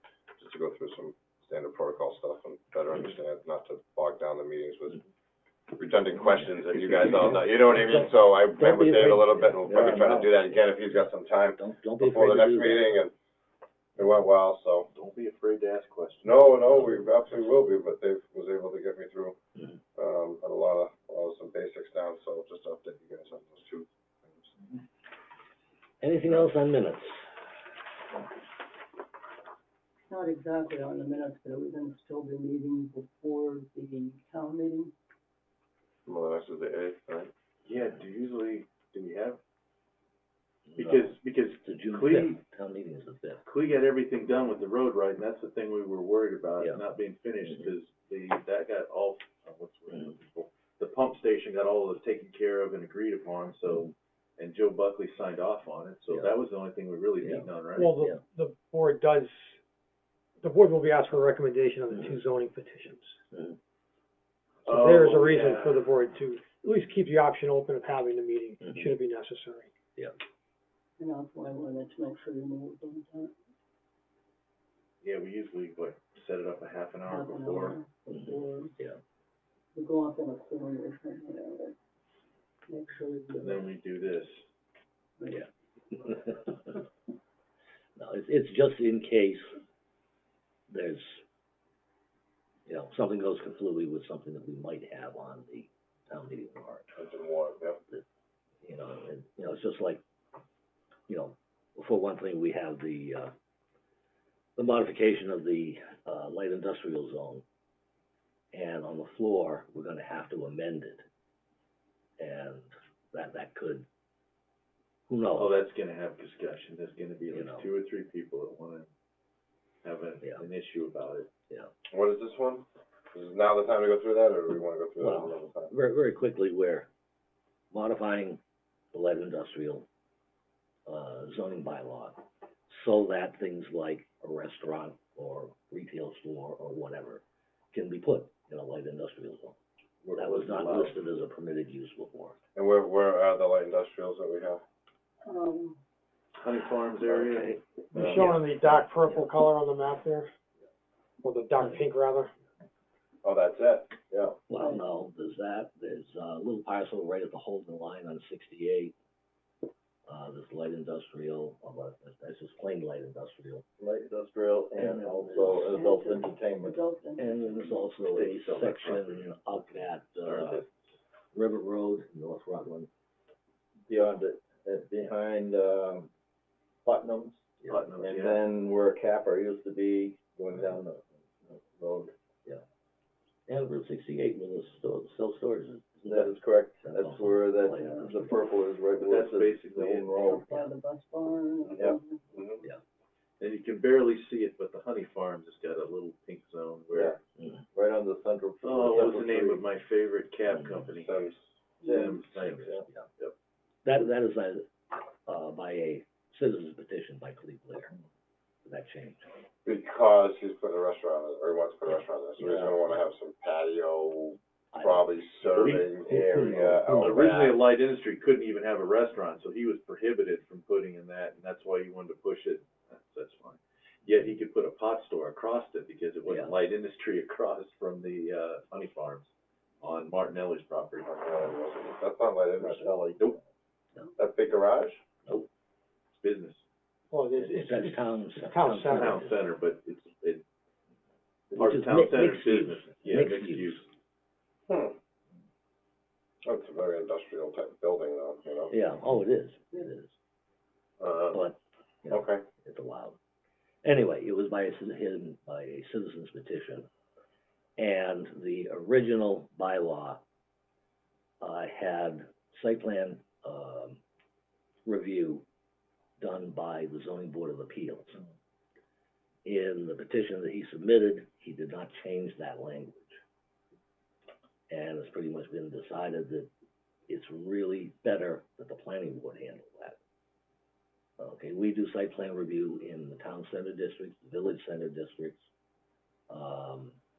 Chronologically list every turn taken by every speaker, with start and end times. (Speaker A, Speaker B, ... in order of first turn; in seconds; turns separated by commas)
Speaker A: 0.4-5.0, Speaker A: 5.8-13.1, Speaker B: 6.6-13.0, Speaker A: 14.0-14.9, Speaker C: 14.9-16.5, Speaker A: 16.2-19.4, Speaker B: 16.7-17.7, Speaker A: 19.9-24.6, Speaker B: 26.0-27.3, Speaker D: 30.1-34.9, Speaker A: 36.1-37.3, Speaker C: 37.6-39.4, Speaker B: 40.7-41.1, Speaker C: 40.8-42.4, Speaker B: 41.6-43.4, Speaker C: 43.4-57.9, Speaker B: 57.2-58.2, Speaker E: 57.8-59.5, Speaker E: 60.4-63.2, Speaker C: 64.7-65.8, Speaker E: 64.7-69.7, Speaker D: 71.0-73.3, Speaker C: 75.0-77.8, Speaker D: 77.1-78.7, Speaker B: 78.1-79.0, Speaker D: 79.7-81.8, Speaker D: 82.7-83.7, Speaker C: 83.4-84.5, Speaker D: 85.2-85.5, Speaker B: 86.0-86.5, Speaker B: 88.0-89.5, Speaker B: 90.7-91.2, Speaker B: 92.7-96.9, Speaker A: 97.0-97.8, Speaker B: 98.6-100.0, Speaker B: 101.1-103.3, Speaker B: 104.6-107.4, Speaker B: 108.5-111.0, Speaker B: 112.2-113.9, Speaker B: 115.1-115.6, Speaker C: 115.4-118.9, Speaker B: 117.3-117.7, Speaker C: 119.8-121.3, Speaker A: 121.9-125.8, Speaker B: 125.0-126.9, Speaker B: 127.7-128.4, Speaker B: 128.9-129.9, Speaker B: 130.9-139.6, Speaker C: 140.0-141.0, Speaker B: 140.2-142.4, Speaker A: 142.6-144.6, Speaker D: 145.2-145.8, Speaker C: 146.4-147.6, Speaker B: 147.1-149.3, Speaker A: 148.0-148.3, Speaker E: 148.0-150.3, Speaker E: 151.2-152.3, Speaker A: 153.2-153.9, Speaker F: 154.1-154.4, Speaker B: 154.5-158.9, Speaker D: 154.5-154.9, Speaker B: 160.1-163.7, Speaker F: 163.8-166.8, Speaker B: 164.8-165.6, Speaker D: 165.3-167.9, Speaker B: 167.2-170.6, Speaker C: 168.1-170.7, Speaker B: 171.3-172.9, Speaker F: 173.9-176.1, Speaker F: 176.8-177.4, Speaker C: 177.7-178.4, Speaker F: 178.0-182.1, Speaker B: 183.5-188.4, Speaker F: 186.0-190.4, Speaker D: 187.7-188.2, Speaker C: 189.0-190.3, Speaker D: 190.2-192.2, Speaker B: 190.4-190.7, Speaker A: 192.3-192.6, Speaker C: 193.4-197.2, Speaker B: 197.4-197.6, Speaker F: 197.7-199.7, Speaker C: 198.6-201.2, Speaker B: 200.5-200.9, Speaker A: 201.0-201.4, Speaker C: 201.8-203.3, Speaker F: 201.8-202.8, Speaker B: 202.2-203.1, Speaker B: 203.8-207.9, Speaker B: 208.7-209.3, Speaker A: 209.7-217.7, Speaker B: 211.8-213.1, Speaker B: 214.7-215.1, Speaker C: 215.5-231.2, Speaker B: 226.3-226.5, Speaker A: 231.1-233.3, Speaker A: 234.2-235.0, Speaker C: 236.1-236.6, Speaker E: 237.1-239.0, Speaker B: 237.4-239.4, Speaker C: 238.9-240.4, Speaker C: 241.5-243.9, Speaker B: 241.5-243.8, Speaker A: 244.7-245.0, Speaker A: 246.4-248.8, Speaker B: 248.7-250.2, Speaker A: 251.0-251.4, Speaker B: 251.3-253.2, Speaker A: 252.1-252.4, Speaker B: 253.8-256.9, Speaker B: 257.8-260.2, Speaker B: 261.4-264.0, Speaker B: 264.9-265.4, Speaker B: 266.2-268.2, Speaker B: 269.5-273.2, Speaker B: 274.7-276.5, Speaker B: 277.1-280.0, Speaker B: 281.2-285.5, Speaker B: 286.3-287.0